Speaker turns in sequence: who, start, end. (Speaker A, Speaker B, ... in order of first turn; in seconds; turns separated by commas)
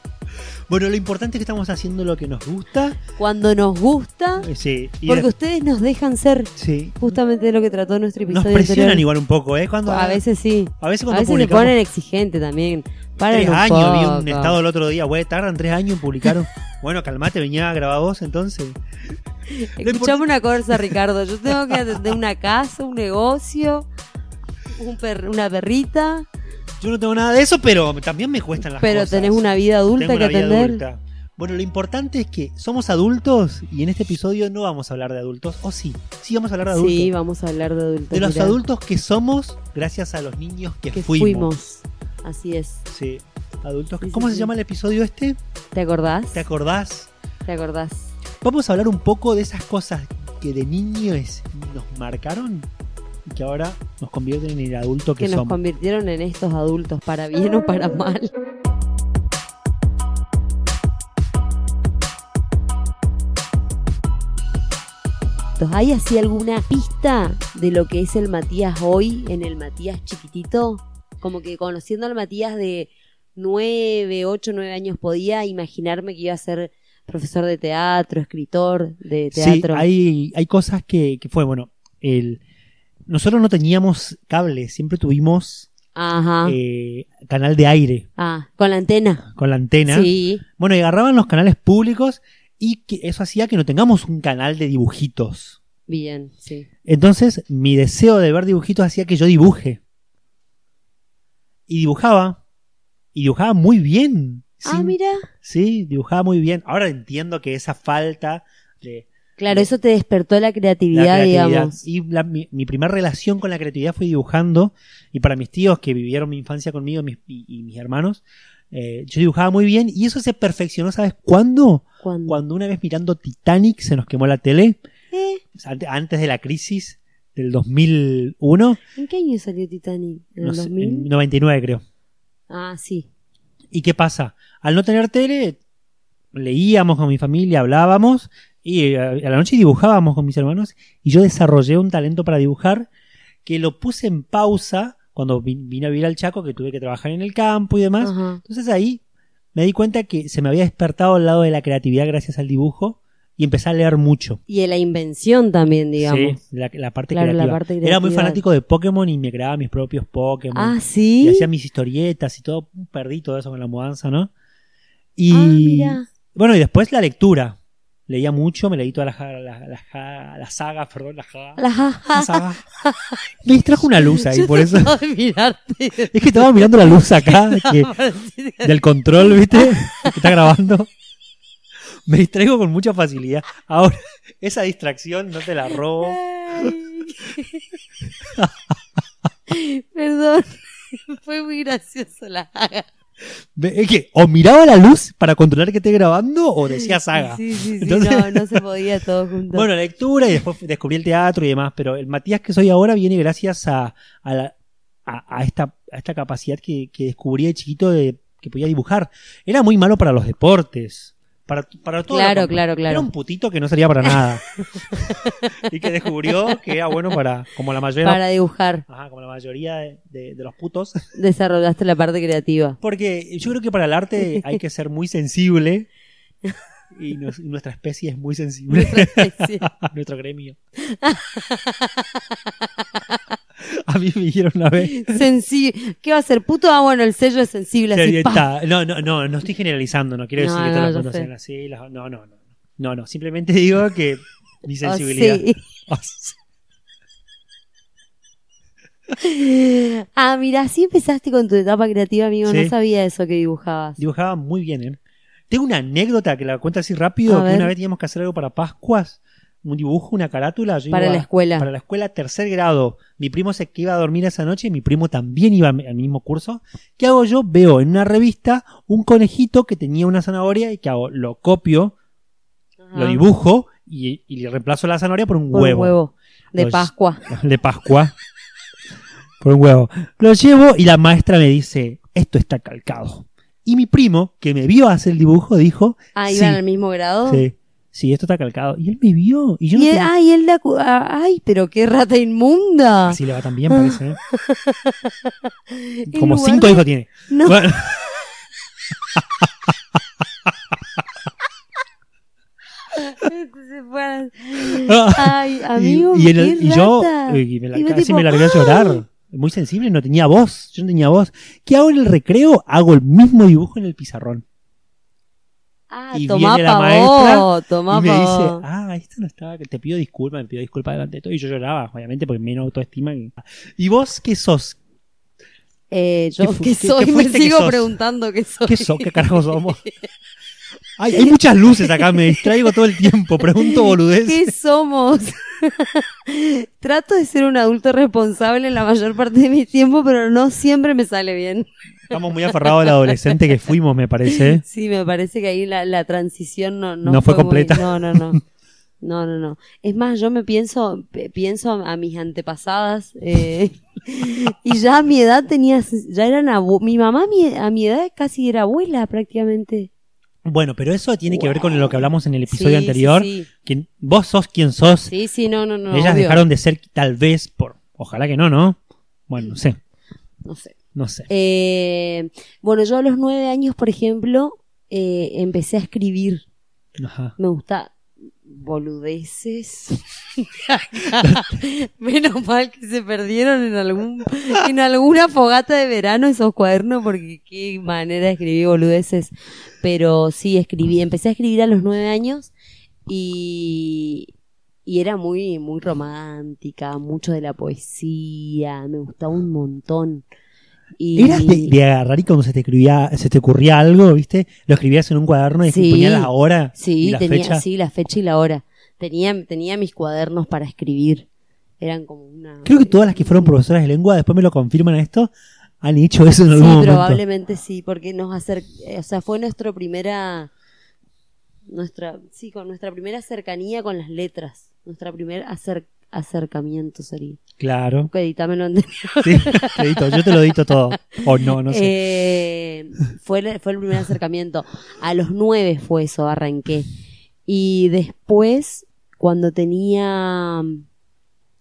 Speaker A: 0.7-3.0, Speaker B: 3.1-4.5, Speaker A: 4.4-5.3, Speaker B: 5.0-9.0, Speaker A: 6.6-7.0, Speaker A: 8.3-10.2, Speaker B: 9.8-14.6, Speaker A: 10.8-11.8, Speaker A: 13.3-18.8, Speaker B: 19.5-23.9, Speaker A: 19.8-22.2, Speaker B: 24.8-26.3, Speaker A: 26.8-29.4, Speaker B: 28.8-30.8, Speaker A: 30.0-37.1, Speaker B: 36.7-38.6, Speaker A: 38.1-41.5, Speaker B: 40.9-42.8, Speaker A: 42.9-45.4, Speaker B: 44.0-44.5, Speaker B: 45.7-46.4, Speaker A: 46.3-47.1, Speaker B: 47.5-48.1, Speaker A: 48.4-52.7, Speaker A: 53.2-55.6, Speaker B: 55.2-58.3, Speaker B: 65.6-79.8, Speaker A: 79.3-82.4, Speaker A: 83.1-85.7, Speaker B: 85.9-86.6, Speaker A: 86.4-88.0, Speaker B: 88.2-89.2, Speaker A: 89.3-95.6, Speaker B: 89.8-90.4, Speaker B: 95.9-96.7, Speaker A: 96.8-99.8, Speaker A: 101.7-102.4, Speaker A: 103.1-109.7, Speaker B: 104.6-105.3, Speaker B: 109.4-111.8, Speaker A: 110.9-124.8, Speaker B: 122.0-122.4, Speaker B: 125.1-125.4, Speaker A: 125.5-128.8, Speaker B: 128.9-131.1, Speaker A: 130.4-131.8, Speaker B: 132.5-133.1, Speaker A: 133.7-135.6, Speaker A: 136.3-142.9, Speaker A: 143.4-149.0, Speaker B: 148.0-148.4, Speaker A: 149.5-154.4, Speaker B: 154.5-156.4, Speaker A: 156.0-164.3, Speaker B: 157.1-158.4, Speaker B: 160.5-161.5, Speaker A: 165.2-171.6, Speaker B: 165.3-166.1, Speaker B: 171.6-173.2, Speaker A: 172.1-172.6, Speaker A: 173.4-174.9, Speaker B: 173.8-180.3, Speaker A: 176.1-177.9, Speaker A: 178.6-180.9, Speaker A: 182.1-186.7, Speaker B: 186.0-187.7, Speaker B: 189.5-192.9, Speaker A: 193.5-198.6, Speaker B: 196.7-199.7, Speaker A: 199.5-204.5, Speaker A: 205.1-214.4, Speaker B: 212.1-213.1, Speaker B: 214.1-215.5, Speaker A: 215.6-218.2, Speaker B: 218.0-218.8, Speaker A: 218.9-221.0, Speaker B: 221.1-222.8, Speaker A: 222.8-225.9, Speaker B: 224.2-224.6, Speaker A: 226.9-230.6, Speaker B: 228.7-229.6, Speaker B: 230.9-233.2, Speaker A: 233.6-235.2, Speaker B: 234.8-238.4, Speaker A: 237.9-246.4, Speaker B: 240.4-241.3, Speaker B: 244.8-245.6, Speaker B: 249.2-254.0, Speaker A: 252.4-252.7, Speaker A: 254.0-271.9, Speaker B: 257.2-257.7, Speaker B: 260.9-261.7, Speaker B: 272.8-273.2, Speaker A: 272.9-275.9, Speaker B: 275.5-277.2, Speaker A: 276.6-278.1, Speaker A: 279.4-286.6, Speaker B: 286.1-287.4, Speaker A: 287.3-290.1, Speaker B: 289.7-293.2, Speaker A: 293.1-294.2, Speaker B: 293.7-298.0, Speaker A: 296.1-298.0, Speaker A: 299.1-299.5, Speaker B: 302.9-309.0, Speaker A: 304.7-314.4, Speaker B: 315.9-318.6, Speaker A: 316.1-324.8, Speaker B: 325.9-329.9, Speaker A: 326.4-327.9, Speaker A: 328.6-329.8, Speaker A: 331.0-334.5, Speaker B: 331.2-332.7, Speaker B: 333.6-343.4, Speaker A: 342.1-344.6, Speaker B: 344.2-348.4, Speaker A: 347.0-348.4, Speaker B: 349.0-359.9, Speaker A: 360.4-365.1, Speaker B: 361.3-363.5, Speaker B: 365.1-366.4, Speaker A: 365.9-369.8, Speaker B: 370.4-370.8, Speaker A: 370.9-371.3, Speaker B: 371.3-376.4, Speaker A: 377.0-377.3, Speaker B: 377.4-377.9, Speaker B: 378.4-392.5, Speaker A: 381.2-381.5, Speaker B: 393.1-394.3, Speaker B: 394.9-400.2, Speaker B: 401.0-401.7, Speaker A: 401.1-407.6, Speaker B: 405.6-411.3, Speaker B: 411.8-413.6, Speaker A: 412.6-417.2, Speaker B: 416.5-420.5, Speaker B: 421.7-427.4, Speaker A: 427.6-428.1, Speaker B: 428.1-430.6, Speaker A: 429.2-431.9, Speaker B: 431.1-436.9, Speaker B: 437.5-440.8